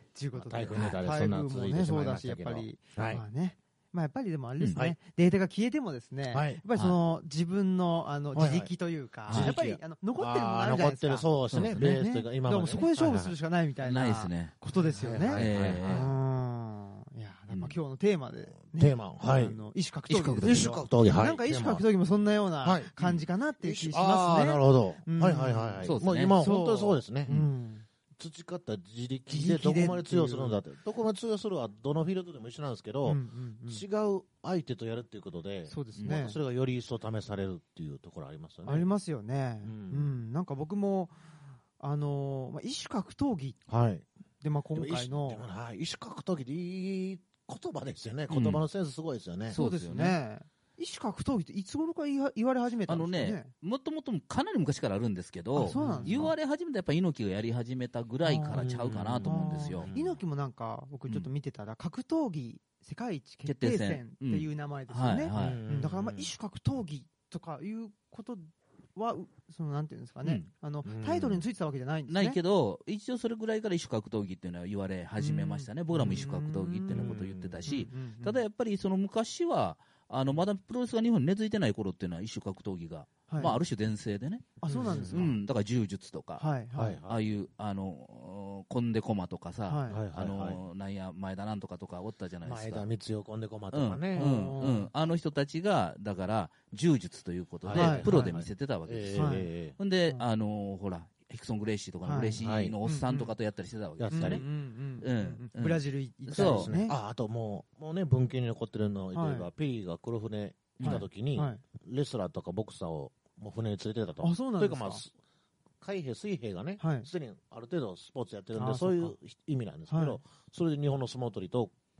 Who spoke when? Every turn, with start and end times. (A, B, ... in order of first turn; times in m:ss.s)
0:00.1-0:27.8 A
0:00.3-0:03.2 B
0:06.3-0:06.6 B
0:08.3-0:08.7 B
0:09.3-0:09.5 C
0:09.3-0:13.3 B
0:11.5-0:12.0 C
0:13.8-0:14.6 C
0:14.8-0:16.1 B
0:15.3-0:16.1 C
0:18.6-0:19.6 B
0:20.1-0:20.7 C
0:20.4-0:21.8 B
0:22.6-0:27.4 B
0:25.8-0:26.4 C
0:28.2-0:38.9 B
0:29.3-0:30.6 A
0:33.0-0:33.8 A
0:35.7-0:36.4 A
0:38.6-0:41.2 A
0:39.6-0:40.1 B
0:41.8-0:43.6 A
0:43.7-0:44.0 B
0:44.4-0:45.4 A
0:44.7-0:49.6 B
0:48.3-0:48.6 C
0:49.5-0:50.2 C
0:49.5-0:53.5 A
0:52.9-0:59.9 C
0:55.5-0:56.3 A
0:55.7-0:56.3 B
0:58.2-1:12.4 A
0:58.5-1:00.2 B
1:03.4-1:05.6 C
1:05.3-1:06.3 B
1:10.8-1:11.4 B
1:12.1-1:26.5 C
1:15.2-1:18.4 A
1:16.9-1:17.7 B
1:23.3-1:23.6 A
1:24.6-1:25.4 A
1:24.7-1:25.3 B
1:26.4-1:27.0 A
1:26.7-1:27.2 B
1:27.1-1:32.8 C
1:29.7-1:30.0 A
1:29.9-1:30.6 B
1:32.4-1:34.3 B
1:33.7-1:44.4 C
1:34.1-1:34.9 A
1:37.6-1:39.8 B
1:37.7-1:38.4 A
1:39.1-1:39.5 A
1:42.0-1:43.3 A
1:42.4-1:42.8 B
1:44.0-1:44.4 B
1:44.1-1:46.9 A
1:45.0-1:46.7 C
1:46.3-1:55.1 B
1:49.1-1:49.5 A
1:50.8-1:51.0 C
1:50.8-1:51.6 A
1:54.2-1:55.0 A
1:55.8-2:01.7 B
1:56.8-1:57.1 A
1:58.5-1:59.1 A
1:59.9-2:00.2 A